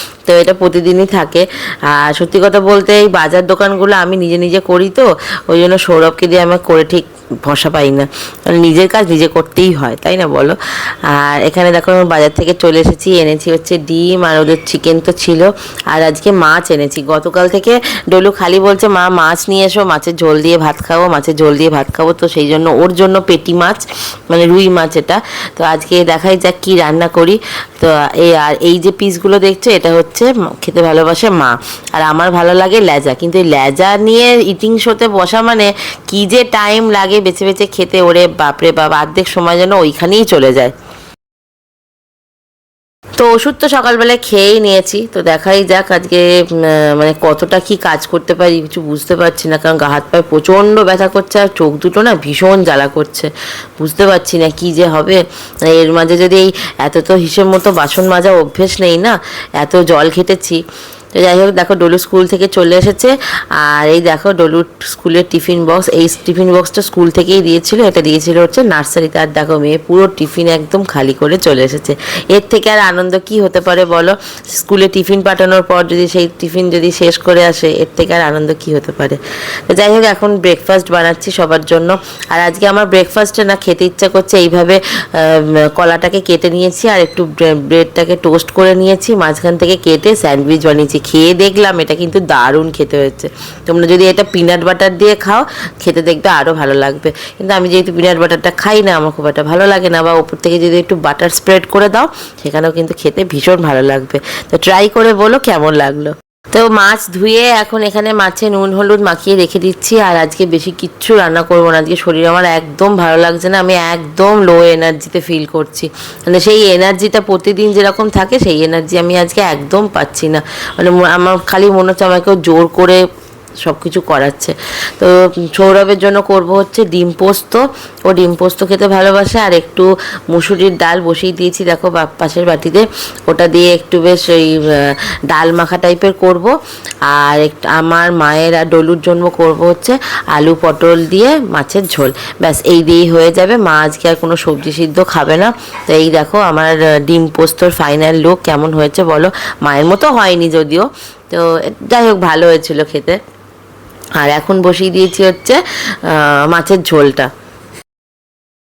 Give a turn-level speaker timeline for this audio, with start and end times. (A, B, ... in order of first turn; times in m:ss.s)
0:00.3-0:40.7 A
0:43.2-1:00.6 A
1:01.1-2:03.0 A
2:03.6-2:16.5 A
2:17.0-2:33.2 A
2:34.2-2:37.3 A